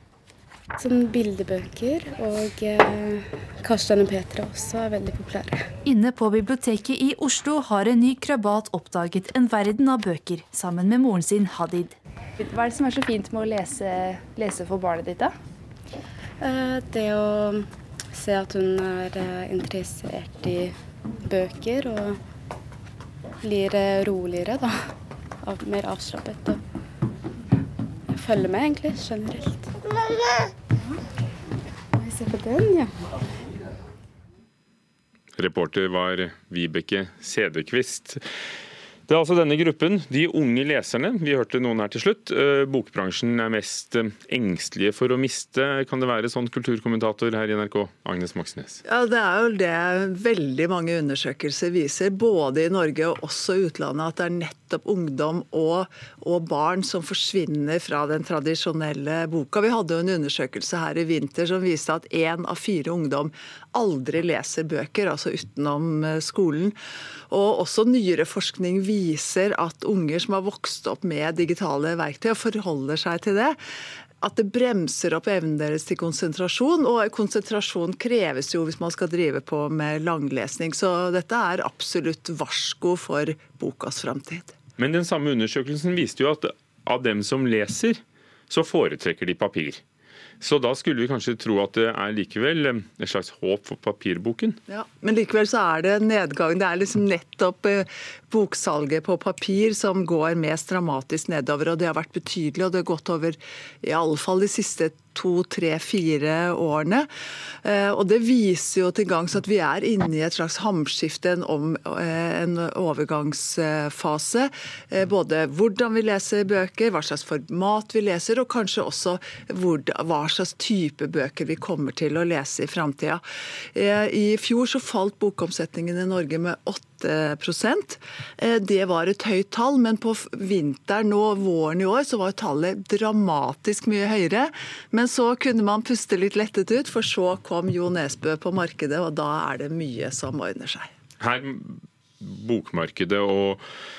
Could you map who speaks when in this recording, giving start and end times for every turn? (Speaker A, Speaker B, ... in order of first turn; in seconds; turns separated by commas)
Speaker A: 0.8-5.7, Speaker B: 5.8-12.0, Speaker C: 12.4-15.3, Speaker A: 16.4-22.2, Speaker A: 23.4-24.9, Speaker A: 25.4-26.6, Speaker A: 28.1-29.7, Speaker A: 31.9-32.9, Speaker D: 35.4-38.2, Speaker D: 39.1-48.8, Speaker E: 48.9-66.8, Speaker E: 67.3-73.6, Speaker E: 74.2-84.5, Speaker D: 84.8-89.8, Speaker D: 90.4-94.6, Speaker E: 94.7-107.1, Speaker E: 107.6-123.2, Speaker E: 123.7-140.9, Speaker D: 141.2-143.6